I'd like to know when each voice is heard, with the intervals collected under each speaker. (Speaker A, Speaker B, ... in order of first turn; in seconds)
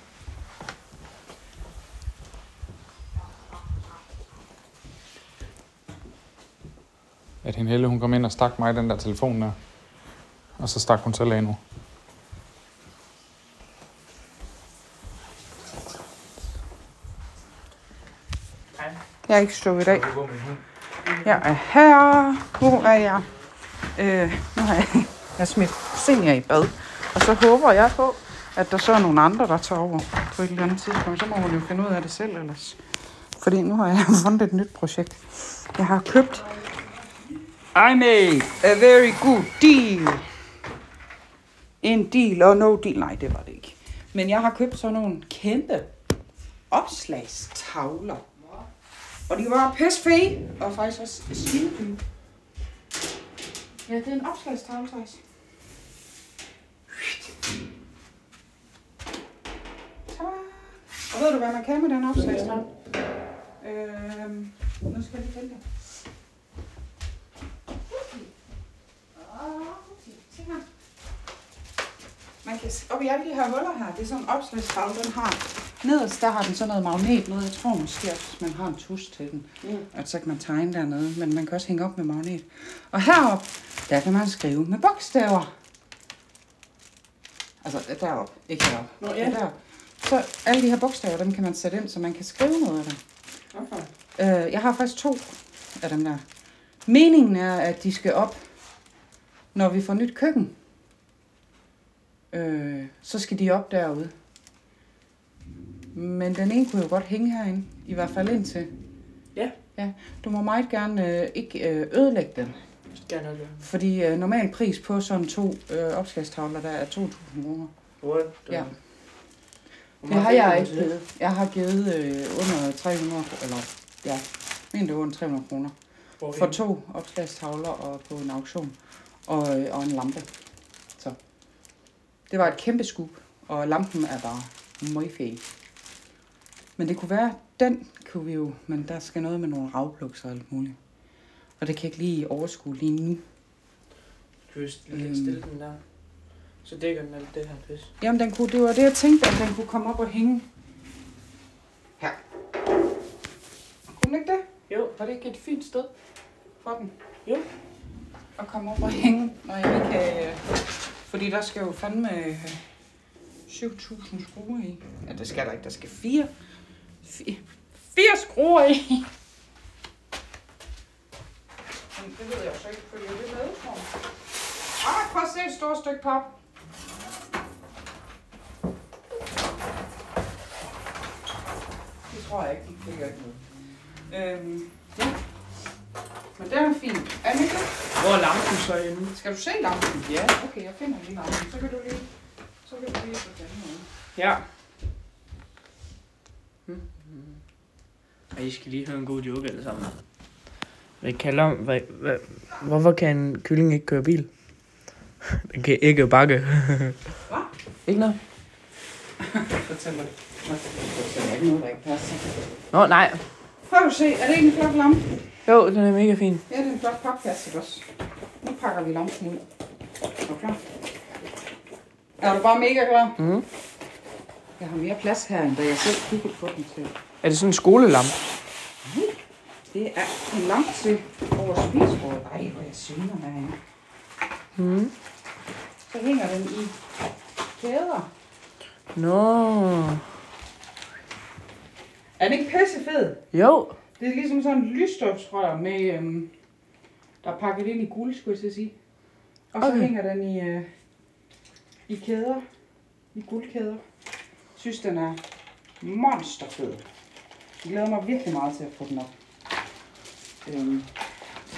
Speaker A: 7.4-9.6, 10.6-11.6, 19.9-20.6
Speaker B: 19.3-20.1, 21.2-23.3, 23.9-32.8, 33.4-36.5, 37.7-40.2, 41.8-45.9, 46.7-48.2, 49.3-52.0, 53.9-55.2, 56.9-57.2, 60.1-62.6, 63.6-65.6, 69.1-70.6, 72.4-85.5, 87.6-93.0, 94.2-96.2, 96.8-98.4, 99.5-100.5, 102.3-104.1, 105.9-108.7, 109.8-112.6, 113.6-117.7, 120.0-125.7, 126.3-130.3, 132.3-135.4, 136.8-140.8, 141.6-143.2, 144.9-145.4, 148.0-150.5, 153.9-155.9, 156.6-156.9, 158.4-162.6, 163.5-166.3, 167.0-169.1, 171.9-173.9, 174.8-176.4, 182.1-183.4, 184.1-185.1, 186.3-187.8, 189.1-192.1, 192.6-193.9, 209.2-212.4, 213.7-215.2, 216.5-217.9, 218.4-219.4, 220.2-220.6, 222.2-223.2, 224.6-227.0, 228.8-233.6, 235.9-236.8, 237.5-238.1, 242.2-243.2, 244.0-246.3, 247.2-248.7, 249.5-250.7, 251.9-252.4, 253.1-253.8, 254.5-255.2, 255.8-256.8, 257.6-259.1, 260.4-260.9
Speaker C: 62.2-62.6, 89.0-89.3, 93.5-93.9, 113.0-113.6, 118.0-118.7, 120.0-120.9, 126.2-126.6, 144.5-145.8, 146.6-147.9, 154.7-154.9, 188.0-189.1, 194.2-194.4, 196.7-197.4, 198.3-200.0, 201.0-204.3, 205.2-207.0, 207.8-208.2, 212.7-213.2, 215.4-216.4, 223.2-223.4, 227.2-228.2, 234.6-234.9, 238.9-240.1, 243.3-243.8, 249.6-249.9